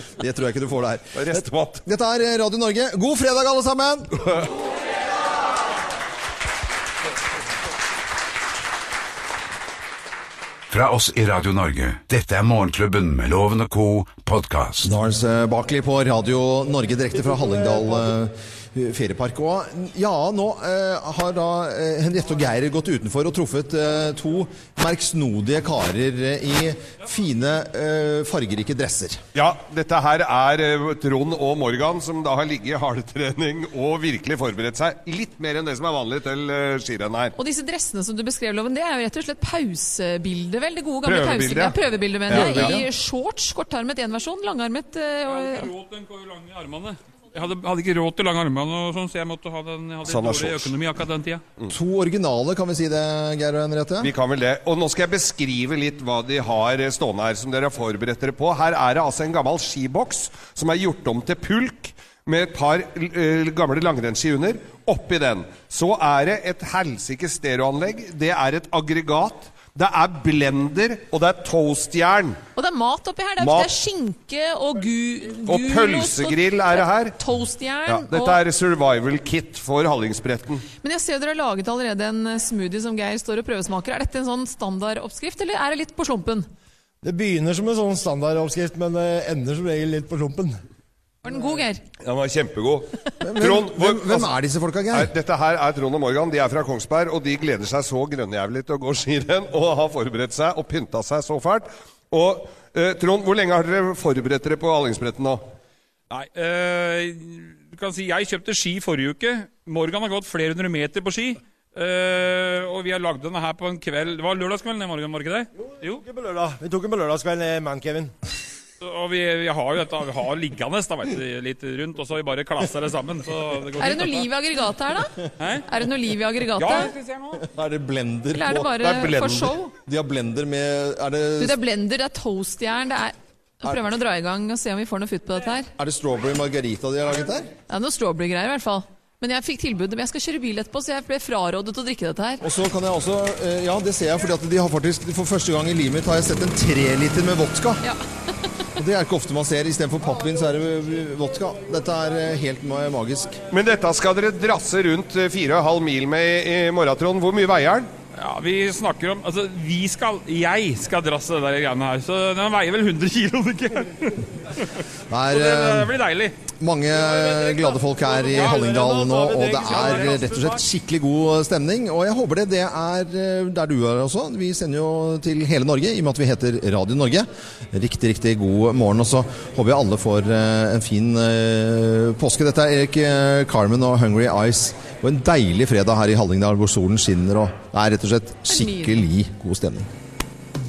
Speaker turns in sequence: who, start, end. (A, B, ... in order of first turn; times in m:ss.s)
0:00.2-0:04.2 A
0:01.1-0:01.8 B
0:10.7-0:14.9 C
0:14.8-0:29.2 A
0:29.3-0:37.3 B
0:37.4-0:45.7 D
0:41.0-0:41.8 B
0:42.3-0:42.8 B
0:42.3-0:42.8 A
0:45.3-0:51.4 E
0:50.0-0:50.7 B
0:51.7-0:54.1 A
0:54.0-1:12.4 B
1:12.6-1:18.4 D
1:13.4-1:13.7 B
1:15.4-1:17.2 B
1:17.8-1:20.6 B
1:20.8-1:26.5 D
1:27.0-1:30.6 F
1:31.2-1:31.8 D
1:32.0-1:34.3 B
1:33.2-1:35.1 A
1:34.9-1:45.4 B
1:46.1-1:56.0 E
1:56.0-1:58.1 F
1:58.8-2:04.3 E
2:03.8-2:05.1 D
2:05.4-2:05.6 E
2:05.7-2:06.9 D
2:06.6-2:07.4 E
2:07.4-2:08.9 A
2:08.3-2:09.7 D
2:08.8-2:09.5 B
2:09.8-2:11.6 A
2:11.4-2:15.7 D
2:15.8-2:17.5 A
2:17.7-2:22.4 D
2:22.4-2:27.8 A
2:28.8-2:33.4 A
2:33.5-2:37.9 B
2:38.2-2:44.2 E
2:45.1-2:45.9 A
2:45.3-2:46.4 E
2:46.6-3:09.9 A
2:47.2-2:50.6 E
3:08.5-3:09.0 D